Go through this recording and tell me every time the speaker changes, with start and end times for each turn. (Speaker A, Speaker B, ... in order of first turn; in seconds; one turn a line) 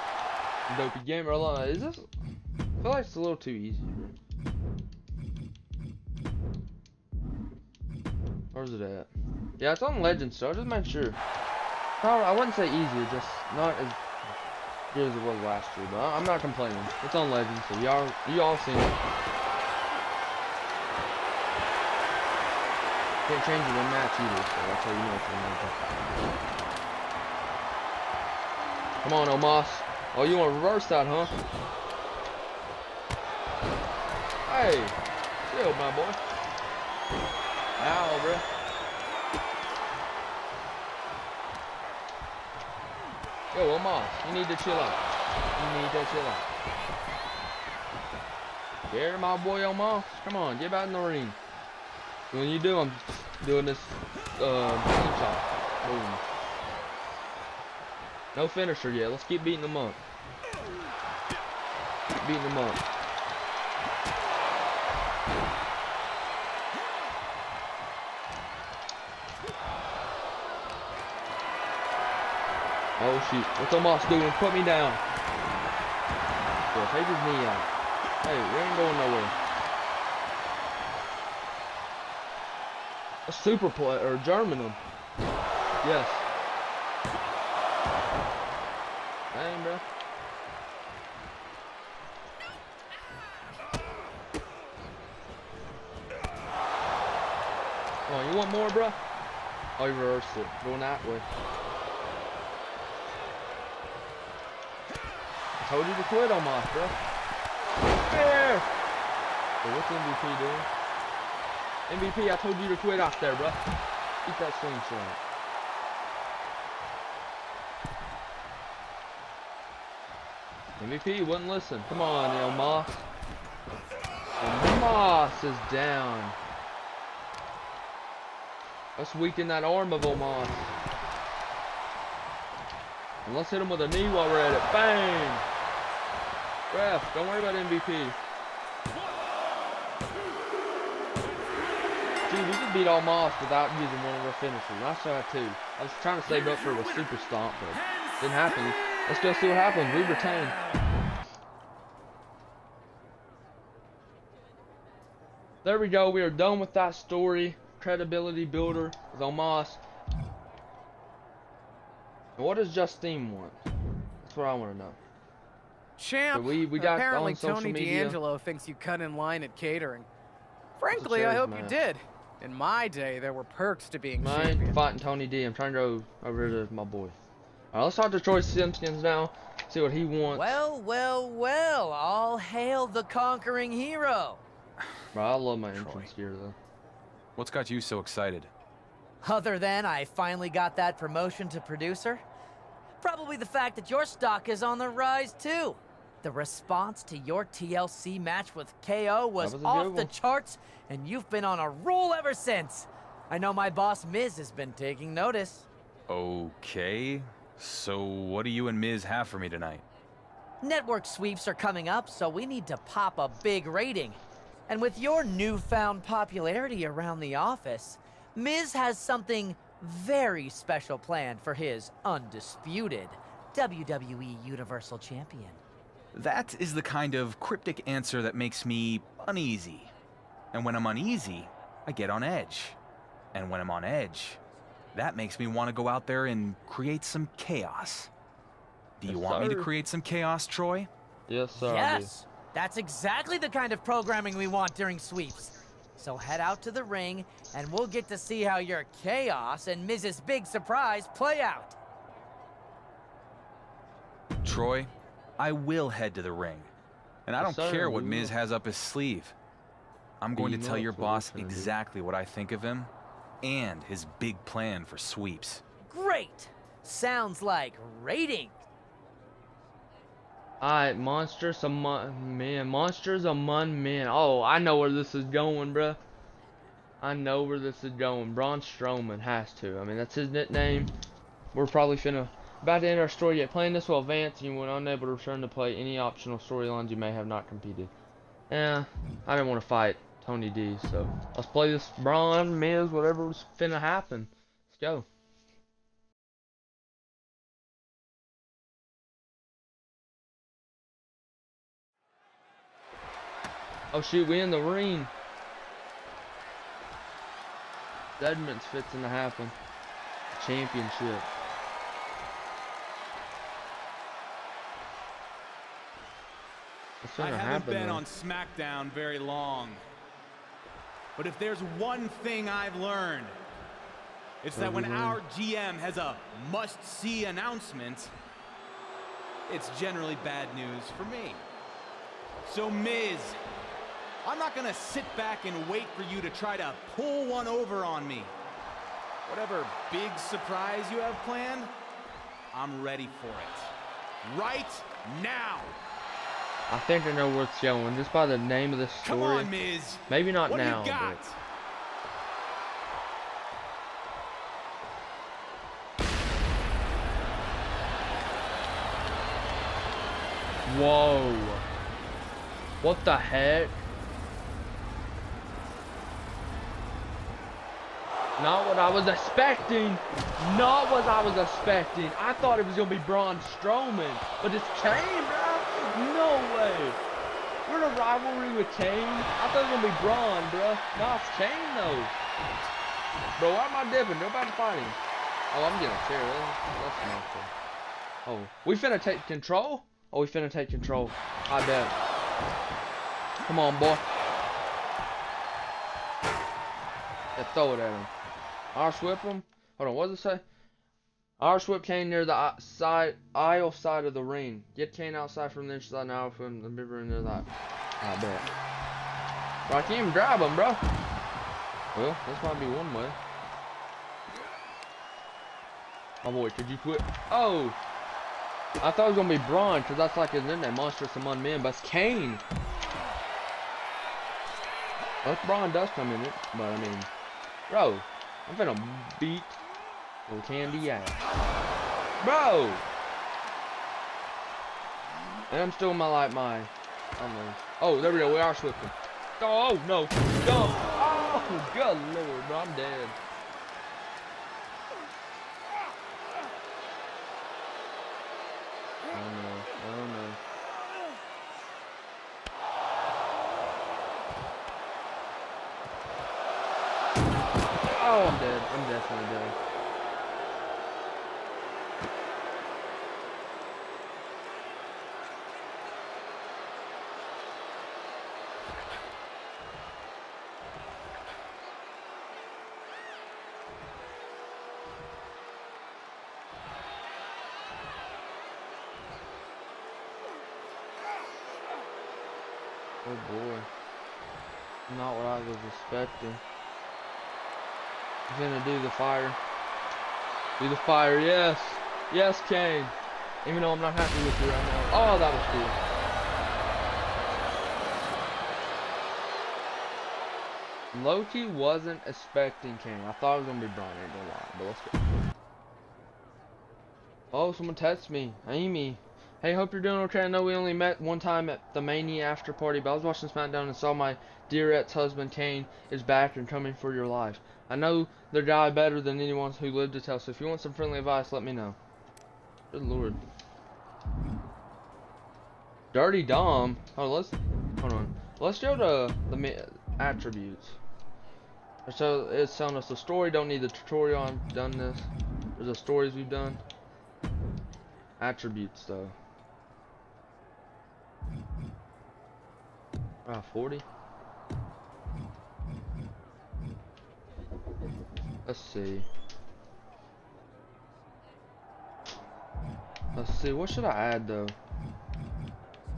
Speaker A: 0.7-2.1
Speaker A: 2.8-4.2
Speaker A: 8.5-11.2
Speaker A: 12.0-14.0
Speaker A: 14.9-19.0
Speaker A: 23.3-26.1
Speaker A: 29.0-31.4
Speaker A: 34.5-36.2
Speaker A: 37.8-38.5
Speaker A: 43.5-45.0
Speaker A: 45.6-46.5
Speaker A: 48.9-51.4
Speaker A: 52.3-56.2
Speaker A: 58.3-60.0
Speaker A: 62.1-62.9
Speaker A: 73.0-75.0
Speaker A: 76.7-77.7
Speaker A: 78.2-79.3
Speaker A: 83.3-84.8
Speaker A: 85.8-86.3
Speaker A: 89.3-89.8
Speaker A: 98.1-99.0
Speaker A: 99.8-101.3
Speaker A: 105.6-107.0
Speaker A: 108.0-108.7
Speaker A: 109.6-110.7
Speaker A: 111.9-113.6
Speaker A: 114.2-115.2
Speaker A: 120.8-123.1
Speaker A: 124.4-126.4
Speaker A: 129.0-130.7
Speaker A: 133.2-135.4
Speaker A: 136.7-138.2
Speaker A: 142.2-150.6
Speaker A: 155.6-159.8
Speaker A: 162.4-163.6
Speaker A: 164.2-165.0
Speaker B: 166.0-170.1
Speaker A: 166.3-168.2
Speaker B: 170.8-174.8
Speaker A: 170.9-171.8
Speaker A: 174.2-177.2
Speaker A: 177.7-180.6
Speaker C: 180.3-184.4
Speaker A: 185.1-186.6
Speaker D: 185.8-186.1
Speaker D: 187.4-188.5
Speaker C: 189.2-192.2
Speaker C: 193.0-205.7
Speaker A: 199.4-200.1
Speaker D: 206.1-209.8
Speaker C: 210.6-225.6
Speaker D: 226.2-229.9
Speaker D: 230.5-232.8
Speaker D: 233.3-234.4
Speaker D: 234.9-238.1
Speaker D: 239.0-240.9
Speaker A: 239.1-239.7
Speaker A: 241.3-242.1
Speaker C: 241.6-251.8
Speaker D: 254.4-256.7
Speaker D: 257.3-259.4
Speaker A: 257.4-258.4
Speaker D: 260.2-262.9
Speaker A: 260.4-261.7
Speaker D: 263.4-265.6
Speaker C: 265.8-268.6
Speaker A: 270.6-276.0
Speaker A: 277.0-280.9
Speaker A: 281.5-287.9
Speaker A: 288.5-295.1
Speaker A: 303.9-305.1
Speaker A: 308.2-309.6
Speaker A: 310.3-311.3
Speaker A: 317.0-318.0
Speaker D: 317.2-319.8
Speaker D: 321.2-323.3
Speaker D: 324.4-328.1
Speaker A: 324.5-325.2
Speaker D: 329.5-331.4
Speaker D: 332.4-333.4
Speaker D: 334.2-338.3
Speaker D: 339.3-341.7
Speaker D: 342.5-343.7
Speaker D: 344.2-345.8
Speaker A: 346.7-349.5
Speaker D: 349.0-351.4
Speaker A: 350.1-351.2
Speaker A: 360.7-361.7
Speaker A: 362.8-363.8
Speaker A: 368.4-377.0
Speaker A: 377.7-382.1
Speaker A: 383.4-385.0
Speaker A: 385.5-387.5
Speaker A: 388.3-391.9
Speaker A: 393.4-394.1
Speaker A: 397.4-398.1
Speaker A: 398.7-400.4
Speaker A: 401.4-407.5
Speaker A: 408.0-408.5
Speaker A: 409.7-410.8
Speaker A: 411.9-413.2
Speaker A: 416.2-417.8
Speaker A: 418.8-422.4
Speaker A: 425.2-427.1
Speaker A: 427.7-429.6
Speaker A: 430.3-431.2
Speaker A: 432.2-432.8
Speaker A: 435.5-443.2
Speaker A: 449.1-450.4
Speaker A: 457.9-459.6
Speaker A: 483.0-483.7
Speaker A: 484.9-486.4
Speaker A: 488.3-489.4
Speaker A: 490.6-492.9
Speaker A: 493.4-495.8
Speaker A: 500.9-505.0
Speaker A: 507.3-521.8
Speaker A: 522.7-523.2
Speaker A: 525.9-530.8
Speaker A: 531.9-536.6
Speaker A: 538.2-539.1
Speaker A: 543.2-543.8
Speaker A: 548.5-549.1
Speaker A: 553.1-554.5